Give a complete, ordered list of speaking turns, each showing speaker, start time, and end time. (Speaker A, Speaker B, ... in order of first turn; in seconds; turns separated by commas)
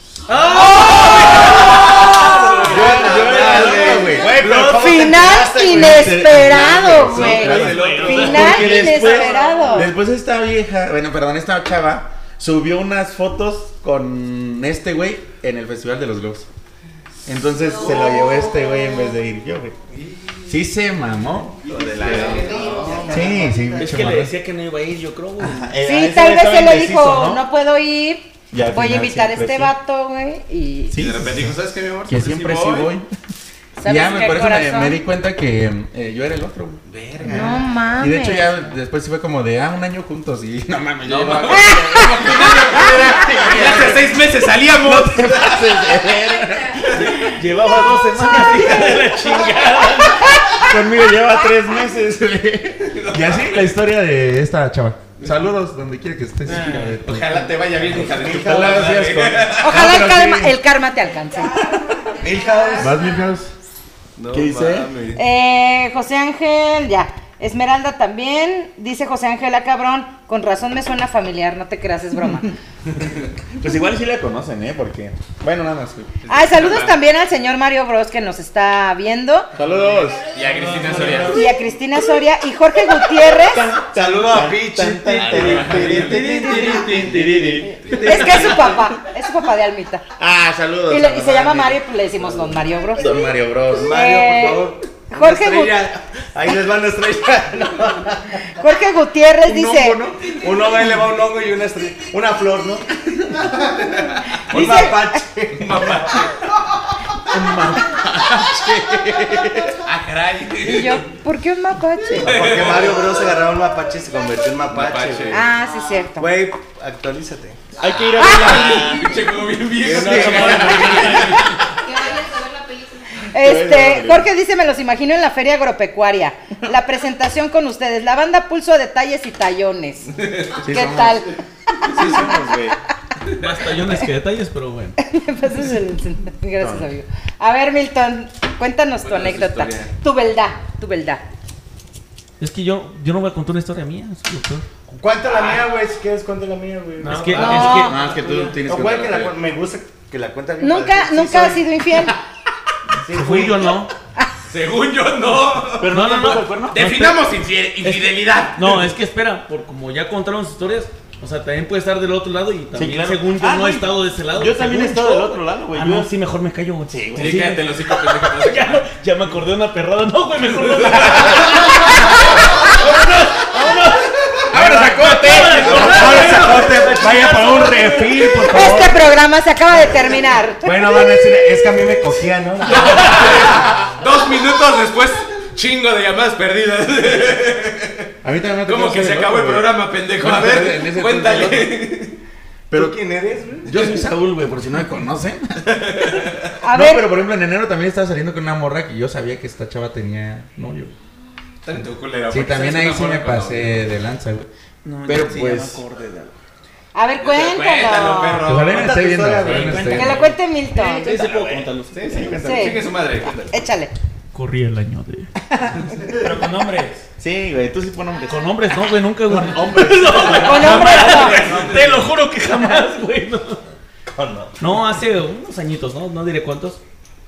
Speaker A: 0.3-2.7, Speaker B: 0.5-2.7, Speaker C: 1.5-1.7, Speaker D: 2.3-4.2, Speaker C: 2.6-16.5, Speaker E: 2.7-6.2, Speaker B: 4.5-9.9, Speaker D: 6.7-9.0, Speaker A: 7.5-9.2, Speaker C: 17.3-19.8, Speaker C: 20.5-24.4, Speaker E: 21.6-23.9, Speaker D: 21.7-23.1, Speaker A: 23.8-25.7, Speaker C: 25.4-27.4, Speaker B: 25.8-31.0, Speaker C: 28.5-29.7, Speaker C: 30.9-31.5, Speaker D: 31.0-32.9, Speaker C: 32.1-33.1, Speaker B: 33.8-35.0, Speaker C: 33.8-37.4, Speaker D: 36.9-37.6, Speaker E: 37.2-37.6, Speaker B: 37.3-38.5, Speaker C: 38.0-44.2, Speaker D: 41.0-45.7, Speaker B: 41.5-42.5, Speaker C: 44.8-47.3, Speaker F: 46.0-46.8, Speaker A: 46.9-50.4, Speaker C: 48.3-48.9, Speaker B: 50.2-50.6, Speaker C: 50.6-60.6, Speaker D: 52.9-53.8, Speaker G: 56.5-56.9, Speaker D: 57.0-59.8, Speaker E: 58.1-58.8, Speaker B: 59.6-61.6, Speaker E: 62.2-63.0, Speaker F: 62.3-63.2, Speaker C: 62.8-63.5, Speaker D: 64.2-65.2, Speaker C: 64.3-65.0, Speaker B: 65.2-72.5, Speaker C: 73.6-76.2, Speaker D: 76.3-77.0, Speaker B: 76.3-79.5, Speaker C: 79.5-80.3, Speaker D: 79.7-81.5, Speaker G: 80.6-81.3, Speaker B: 81.3-83.7, Speaker C: 83.4-88.8, Speaker E: 83.9-86.3, Speaker D: 85.1-88.2, Speaker A: 85.7-88.8, Speaker B: 86.3-87.0, Speaker E: 86.9-87.4, Speaker B: 87.9-90.0, Speaker C: 90.2-91.8, Speaker B: 90.9-93.1, Speaker C: 93.0-93.9, Speaker E: 93.7-98.4, Speaker B: 93.9-95.9, Speaker B: 98.6-100.0, Speaker C: 99.4-100.4, Speaker E: 100.3-102.9, Speaker D: 103.9-105.0, Speaker B: 104.5-105.2, Speaker E: 104.5-106.1, Speaker D: 105.5-106.3, Speaker C: 107.3-109.7, Speaker D: 109.8-111.0, Speaker B: 110.6-112.4, Speaker E: 112.2-115.4, Speaker D: 112.2-113.1, Speaker D: 114.7-115.5, Speaker B: 115.3-116.3, Speaker E: 116.2-117.7, Speaker C: 117.8-119.1, Speaker B: 118.2-119.0, Speaker D: 118.2-121.7, Speaker E: 119.8-121.0, Speaker A: 119.9-121.4, Speaker C: 120.0-120.4, Speaker F: 121.8-123.2, Speaker B: 123.3-130.1, Speaker C: 123.4-124.3, Speaker C: 130.6-131.2, Speaker B: 130.6-131.3, Speaker C: 131.9-132.8, Speaker B: 132.0-132.7, Speaker A: 133.4-135.0, Speaker B: 135.0-141.2, Speaker C: 136.6-136.9, Speaker D: 139.0-139.9, Speaker A: 142.4-144.7, Speaker E: 144.9-147.7, Speaker D: 145.3-145.6, Speaker G: 147.0-147.8, Speaker A: 147.0-148.3, Speaker C: 147.4-149.3, Speaker B: 147.4-148.0, Speaker E: 148.7-151.7, Speaker B: 150.6-152.2, Speaker E: 153.0-153.8, Speaker A: 153.1-153.9, Speaker D: 154.5-155.9, Speaker C: 155.8-157.0, Speaker A: 155.9-157.2, Speaker D: 156.7-158.9, Speaker A: 157.8-178.6, Speaker C: 162.8-166.1, Speaker C: 166.9-167.5, Speaker D: 167.2-168.8, Speaker D: 170.6-171.5, Speaker C: 174.5-176.0, Speaker E: 175.6-179.0, Speaker B: 178.5-181.8, Speaker E: 180.6-183.4, Speaker D: 182.7-188.1, Speaker C: 188.2-191.8, Speaker D: 188.7-192.2, Speaker C: 192.7-193.0, Speaker E: 192.7-193.9, Speaker C: 193.7-195.8, Speaker D: 195.7-196.5, Speaker B: 196.6-197.2, Speaker C: 196.7-200.9, Speaker D: 201.6-203.9, Speaker C: 202.3-204.5, Speaker A: 204.8-206.3, Speaker C: 205.1-205.8, Speaker B: 206.9-208.5, Speaker D: 207.2-208.9, Speaker C: 208.4-210.3, Speaker E: 208.7-210.1, Speaker A: 209.6-212.4, Speaker B: 209.9-211.1, Speaker D: 210.8-213.5, Speaker C: 212.1-212.8, Speaker B: 212.4-212.9, Speaker B: 213.5-213.9, Speaker A: 214.3-215.3, Speaker G: 216.1-217.0, Speaker C: 217.2-218.4, Speaker A: 218.3-223.6, Speaker C: 219.3-220.5, Speaker B: 220.4-221.5, Speaker D: 220.6-222.0, Speaker E: 224.1-224.6, Speaker A: 224.6-226.8